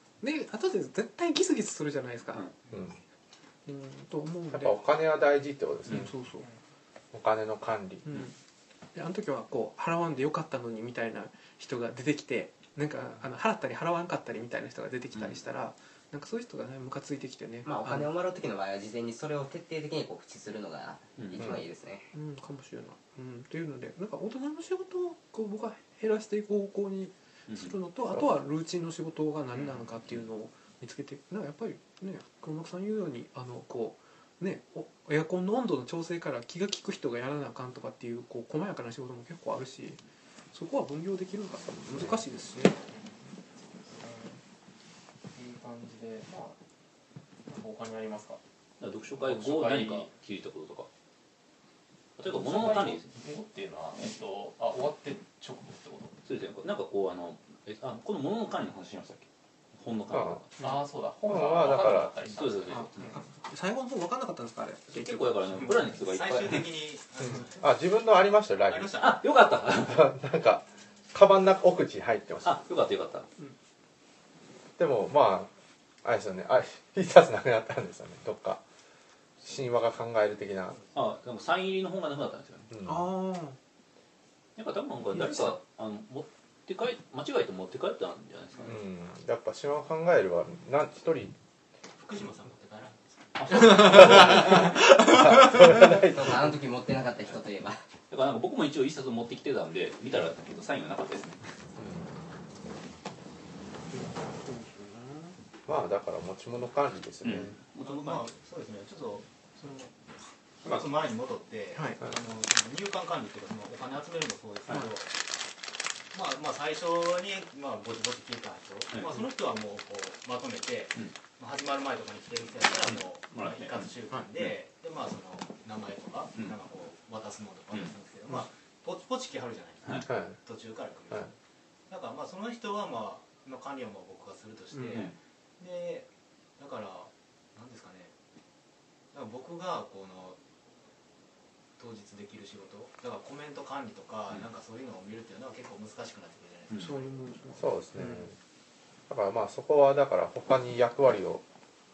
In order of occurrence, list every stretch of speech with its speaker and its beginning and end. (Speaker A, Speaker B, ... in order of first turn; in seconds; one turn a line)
Speaker A: 0.2-2.4
Speaker A: 3.6-4.8
Speaker B: 4.5-6.1
Speaker A: 5.8-6.4
Speaker B: 7.1-8.0
Speaker A: 8.0-8.3
Speaker A: 8.9-18.1
Speaker C: 17.6-22.1
Speaker D: 21.2-21.4
Speaker B: 21.4-21.6
Speaker A: 22.1-40.0
Speaker A: 40.5-42.8
Speaker B: 41.9-42.1
Speaker E: 42.7-44.4
Speaker E: 45.3-46.6
Speaker E: 47.5-48.4
Speaker D: 48.8-50.9
Speaker E: 49.1-50.1
Speaker D: 52.2-53.1
Speaker E: 52.2-56.1
Speaker D: 56.2-60.5
Speaker B: 60.1-60.4
Speaker E: 60.6-63.2
Speaker B: 61.2-62.1
Speaker D: 61.7-63.1
Speaker A: 62.7-65.5
Speaker D: 64.9-66.7
Speaker F: 65.5-67.6
Speaker B: 67.3-68.9
Speaker F: 68.7-69.2
Speaker D: 69.0-70.1
Speaker B: 69.8-72.6
Speaker D: 72.4-73.3
Speaker B: 74.8-75.5
Speaker B: 76.0-78.6
Speaker B: 79.4-80.8
Speaker D: 80.9-82.7
Speaker B: 82.7-83.1
Speaker A: 82.8-83.6
Speaker D: 84.5-88.8
Speaker A: 85.1-85.5
Speaker B: 88.6-91.3
Speaker F: 92.0-93.6
Speaker D: 93.4-94.7
Speaker A: 93.5-95.7
Speaker B: 93.7-96.5
Speaker C: 95.7-97.8
Speaker D: 98.1-101.4
Speaker B: 101.8-102.0
Speaker A: 103.9-105.3
Speaker B: 105.7-107.5
Speaker D: 107.2-108.3
Speaker F: 107.8-109.9
Speaker F: 110.6-115.2
Speaker A: 111.7-112.0
Speaker F: 116.1-131.3
Speaker D: 118.9-119.2
Speaker D: 122.9-124.5
Speaker B: 130.1-130.4
Speaker F: 131.9-138.1
Speaker A: 134.7-135.1
Speaker F: 139.1-140.4
Speaker F: 141.8-147.7
Speaker A: 146.8-148.3
Speaker B: 147.6-148.3
Speaker B: 149.1-151.4